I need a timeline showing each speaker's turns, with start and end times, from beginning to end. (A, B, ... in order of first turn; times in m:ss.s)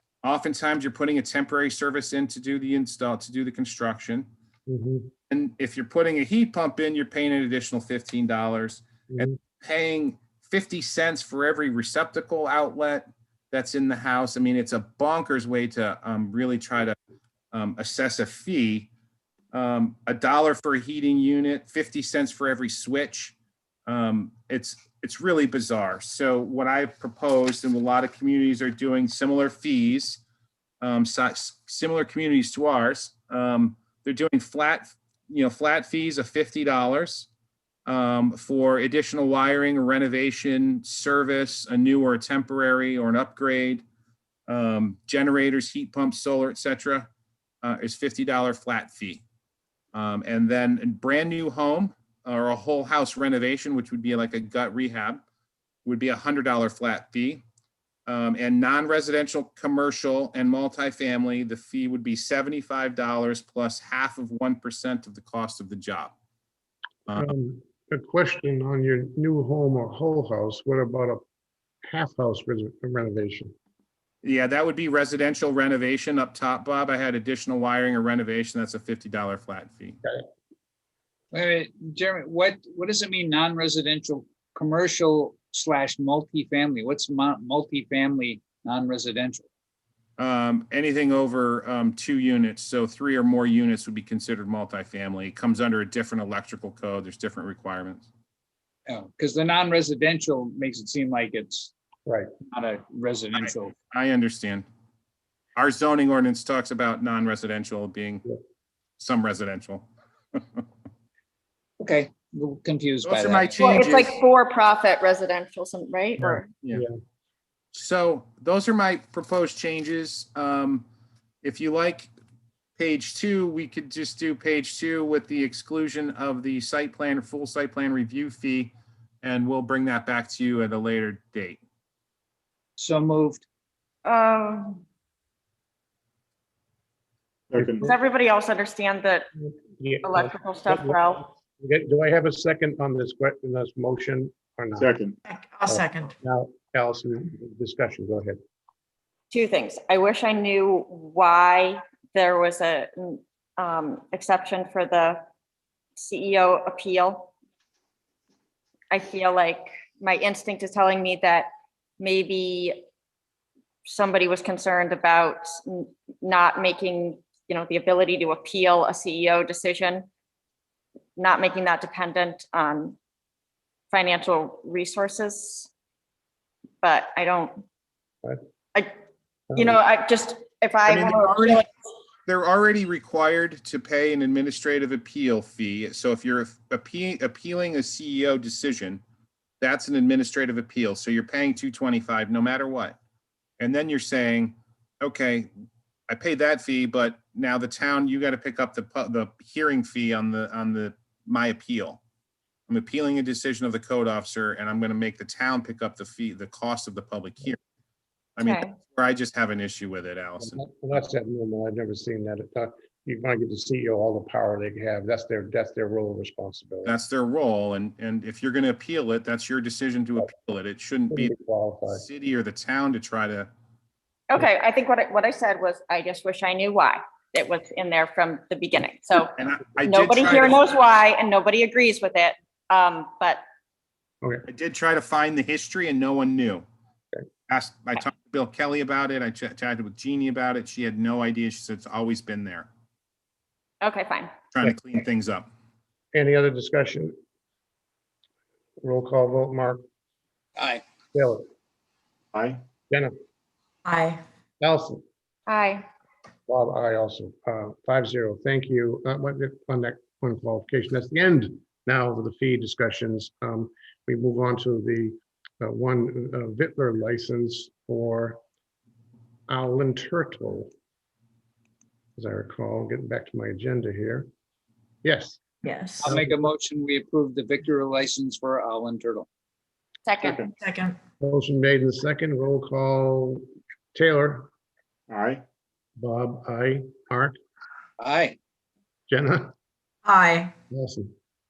0:00.2-0:04.3 A
0:04.7-0:05.1 B
0:05.3-0:17.0 A
0:09.1-0:09.3 B
0:17.5-0:18.9 A
0:19.5-0:23.3 A
0:23.9-0:30.2 A
0:30.8-0:37.3 A
0:37.8-0:43.8 A
0:44.5-0:47.1 A
0:47.6-0:49.2 A
0:49.9-0:55.2 A
0:55.8-0:57.4 A
0:58.1-1:06.1 A
1:07.1-1:11.2 B
1:11.9-1:13.5 B
1:14.2-1:20.0 A
1:21.3-1:29.4 C
1:30.2-1:38.1 A
1:38.9-1:41.7 C
1:42.0-1:42.3 B
1:42.4-1:43.7 C
1:43.4-1:44.6 A
1:45.6-1:48.2 A
1:49.0-1:50.6 A
1:51.8-1:54.1 C
1:53.0-1:54.2 A
1:53.6-1:56.5 D
1:56.2-1:56.9 B
1:57.7-2:00.8 A
2:01.4-2:02.1 A
2:02.8-2:11.6 A
2:12.8-2:13.4 C
2:14.0-2:14.8 D
2:17.5-2:17.9 E
2:17.6-2:17.9 B
2:17.8-2:19.3 D
2:19.4-2:24.9 B
2:20.0-2:21.2 D
2:24.8-2:25.2 E
2:25.2-2:26.1 F
2:25.7-2:28.4 B
2:29.3-2:35.2 D
2:36.0-2:37.3 D
2:38.9-2:41.5 D
2:42.0-2:42.8 D
2:43.8-2:50.1 D
2:51.2-2:53.0 D
2:53.9-2:55.7 D
2:56.8-2:57.6 D
2:59.5-2:59.8 B
2:59.6-3:01.6 D
3:00.8-3:01.7 A
3:02.2-3:09.0 A
3:09.6-3:13.0 A
3:13.6-3:15.5 A
3:16.1-3:22.0 A
3:22.7-3:27.6 A
3:28.4-3:30.6 A
3:28.4-3:28.7 D
3:30.4-3:37.0 B
3:36.8-3:41.3 A
3:41.1-3:42.0 B
3:41.9-3:43.5 A
3:44.3-3:49.3 D
3:49.4-3:50.6 A
3:49.8-3:53.4 D
3:54.5-3:56.6 A
3:57.5-4:02.7 A
4:03.8-4:04.3 D
4:04.5-4:05.5 A
4:06.1-4:07.1 B
4:08.8-4:09.8 B
4:11.1-4:11.4 B
4:12.3-4:12.6 E
4:13.8-4:14.2 F
4:14.6-4:15.0 B
4:15.5-4:15.8 D
4:16.5-4:28.4 B
4:29.5-4:30.7 B
4:32.2-4:34.3 B
4:35.0-4:35.4 B
4:35.6-4:36.1 F
4:36.0-4:39.2 C
4:36.0-4:36.3 B
4:40.0-4:40.4 D
4:40.2-4:40.5 E
4:40.6-4:41.0 F
4:41.2-4:44.5 B
4:45.1-4:45.4 E
4:46.0-4:47.4 B
4:48.0-4:48.4 C
4:49.1-4:49.5 B
4:50.0-4:50.5 F
4:50.7-4:51.1 B